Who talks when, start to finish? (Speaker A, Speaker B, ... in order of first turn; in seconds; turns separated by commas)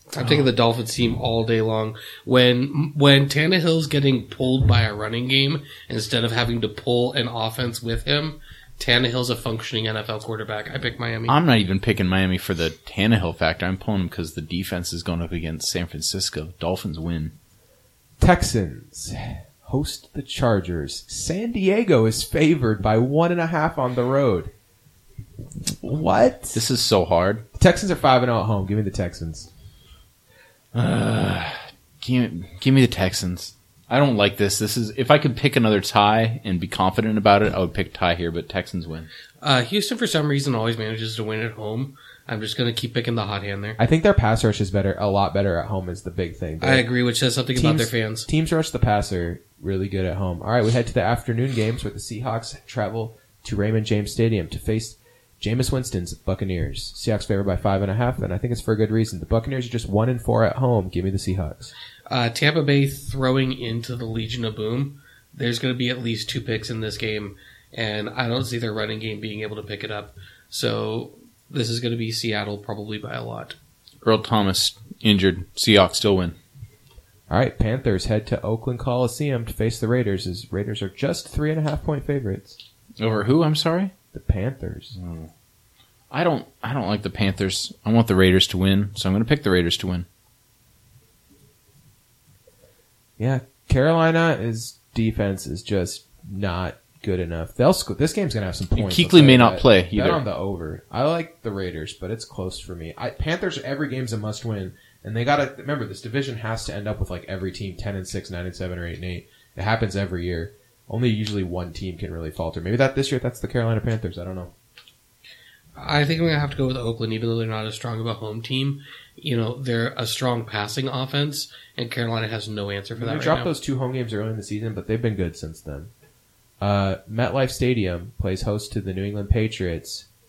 Speaker A: 0.1-11.4, Speaker B: 11.3-17.3, Speaker C: 18.2-24.5, Speaker C: 25.8-26.6, Speaker B: 26.5-27.4, Speaker C: 27.6-29.5, Speaker B: 30.8-39.1, Speaker A: 39.4-43.8, Speaker C: 43.8-46.9, Speaker A: 46.6-48.3, Speaker C: 47.5-61.7, Speaker A: 62.1-73.6, Speaker B: 74.0-76.4, Speaker C: 77.3-82.6, Speaker B: 83.0-83.9, Speaker C: 84.1-84.9, Speaker B: 85.0-85.3, Speaker B: 86.1-90.1, Speaker C: 93.2-114.5, Speaker B: 98.7-100.2, Speaker A: 115.8-123.5, Speaker C: 123.0-125.9, Speaker C: 126.6-130.1